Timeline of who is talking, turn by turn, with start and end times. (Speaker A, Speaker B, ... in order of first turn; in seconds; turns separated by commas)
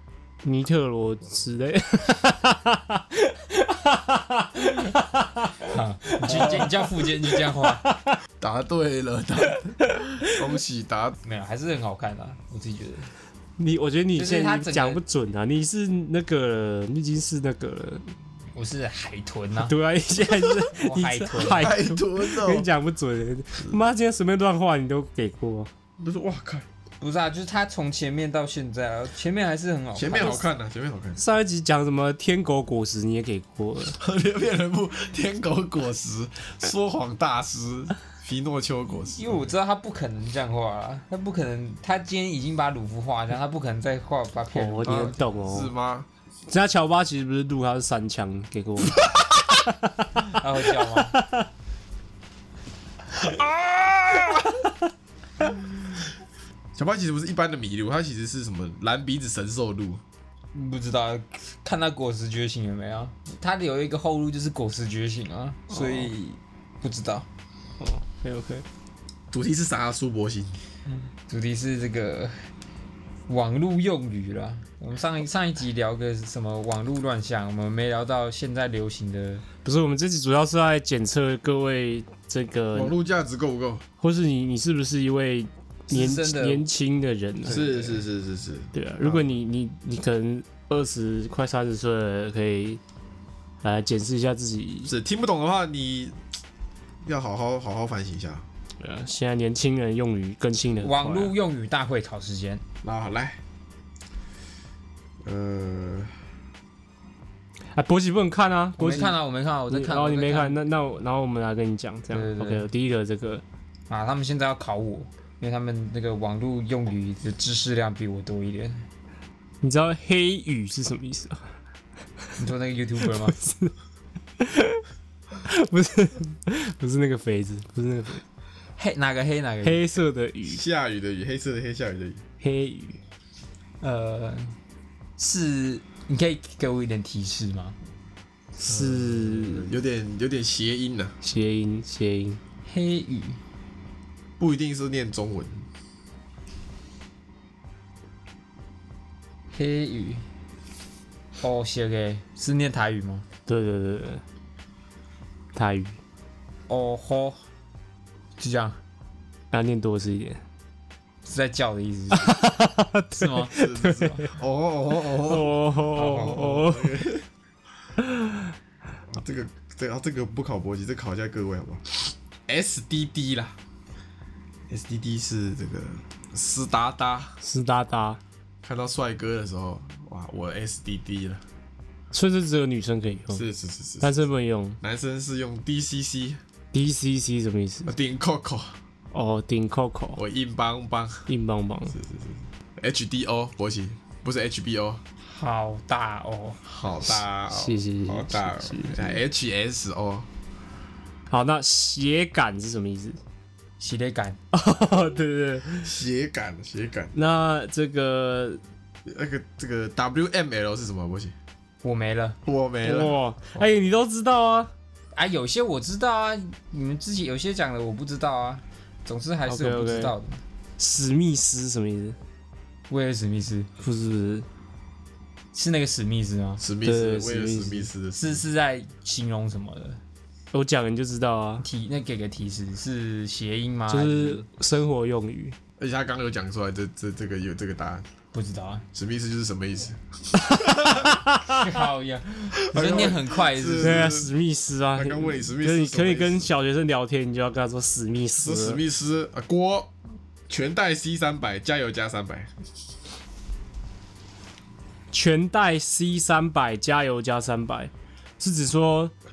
Speaker A: 0.4-5.6, Speaker B: 5.6-7.8, Speaker A: 6.2-6.6, Speaker C: 6.3-6.7, Speaker A: 7.8-8.2, Speaker C: 8.4-11.2, Speaker B: 11.2-13.1, Speaker A: 13.6-18.1, Speaker B: 14.2-15.0, Speaker B: 18.6-19.8, Speaker A: 19.6-25.7, Speaker B: 20.7-21.7, Speaker C: 21.5-22.7, Speaker C: 26.0-26.7, Speaker B: 27.0-30.5, Speaker C: 29.9-31.2, Speaker A: 31.2-34.0, Speaker C: 33.9-39.5, Speaker B: 39.1-45.2, Speaker A: 44.5-45.7, Speaker C: 44.9-46.1, Speaker A: 46.5-50.4, Speaker B: 50.2-51.2, Speaker A: 51.1-51.5, Speaker C: 53.1-54.6, Speaker C: 56.8-60.0, Speaker B: 60.5-67.3, Speaker A: 65.7-66.0, Speaker A: 67.8-68.7, Speaker C: 69.3-70.6, Speaker B: 70.9-72.5, Speaker B: 73.3-79.5, Speaker A: 79.7-82.9, Speaker C: 82.7-83.8, Speaker A: 84.0-87.7, Speaker B: 85.9-86.7, Speaker C: 87.5-89.3, Speaker B: 87.7-87.9, Speaker A: 88.7-92.8, Speaker A: 93.6-94.9, Speaker C: 94.9-96.2, Speaker C: 97.0-98.5, Speaker A: 98.8-101.3, Speaker B: 100.8-102.6, Speaker C: 102.8-103.4, Speaker C: 105.2-106.1, Speaker A: 107.7-109.2, Speaker B: 108.8-110.6, Speaker A: 109.7-113.4, Speaker B: 112.1-112.7, Speaker B: 113.9-118.9, Speaker A: 119.6-121.5, Speaker B: 122.4-123.4, Speaker A: 123.3-123.7, Speaker A: 124.4-124.8, Speaker A: 125.5-128.2, Speaker B: 128.8-129.8, Speaker A: 129.6-130.6, Speaker C: 130.5-132.2, Speaker A: 132.4-133.0, Speaker B: 133.8-134.6, Speaker B: 135.2-137.8, Speaker A: 138.6-139.7, Speaker C: 138.7-141.2, Speaker A: 141.2-142.4, Speaker B: 142.7-143.4, Speaker C: 144.4-145.7, Speaker B: 149.5-150.2, Speaker B: 151.4-153.3, Speaker A: 153.5-154.2, Speaker A: 155.5-156.0, Speaker B: 156.7-157.4, Speaker B: 158.4-158.8, Speaker A: 159.5-160.4, Speaker B: 161.2-162.5, Speaker A: 162.1-164.3, Speaker B: 163.1-164.2, Speaker C: 163.5-167.3, Speaker A: 165.2-166.9, Speaker A: 168.0-168.4, Speaker C: 169.1-173.6, Speaker C: 174.7-177.4, Speaker A: 177.4-178.2, Speaker C: 178.6-181.4, Speaker A: 182.1-183.4, Speaker C: 183.3-184.3, Speaker A: 184.0-184.8, Speaker C: 184.8-186.4, Speaker A: 186.7-187.9, Speaker C: 187.9-188.8, Speaker A: 189.1-190.2, Speaker C: 190.2-191.3, Speaker A: 191.3-192.0, Speaker C: 191.9-195.0, Speaker B: 195.2-196.6, Speaker C: 196.6-200.3, Speaker A: 197.5-199.2, Speaker A: 201.3-203.2, Speaker B: 203.8-204.4, Speaker A: 204.5-205.9, Speaker C: 205.8-207.1, Speaker A: 207.1-208.6, Speaker C: 209.1-211.3, Speaker B: 211.8-212.4, Speaker C: 212.5-213.7, Speaker A: 212.8-214.7, Speaker B: 215.2-220.4, Speaker A: 219.5-220.1, Speaker A: 220.8-222.2, Speaker B: 222.9-223.7, Speaker A: 223.8-224.5, Speaker B: 225.5-226.6, Speaker C: 226.6-228.4, Speaker A: 226.8-227.9, Speaker B: 228.2-230.0, Speaker A: 230.5-231.7, Speaker B: 231.6-234.5, Speaker A: 233.9-235.6, Speaker C: 235.8-238.1, Speaker B: 238.3-238.8, Speaker C: 238.9-241.2, Speaker A: 240.6-241.7, Speaker B: 241.5-244.2, Speaker C: 242.6-244.3, Speaker A: 243.8-248.8, Speaker C: 244.9-246.5, Speaker C: 248.4-249.9, Speaker C: 250.5-252.6, Speaker A: 255.1-259.1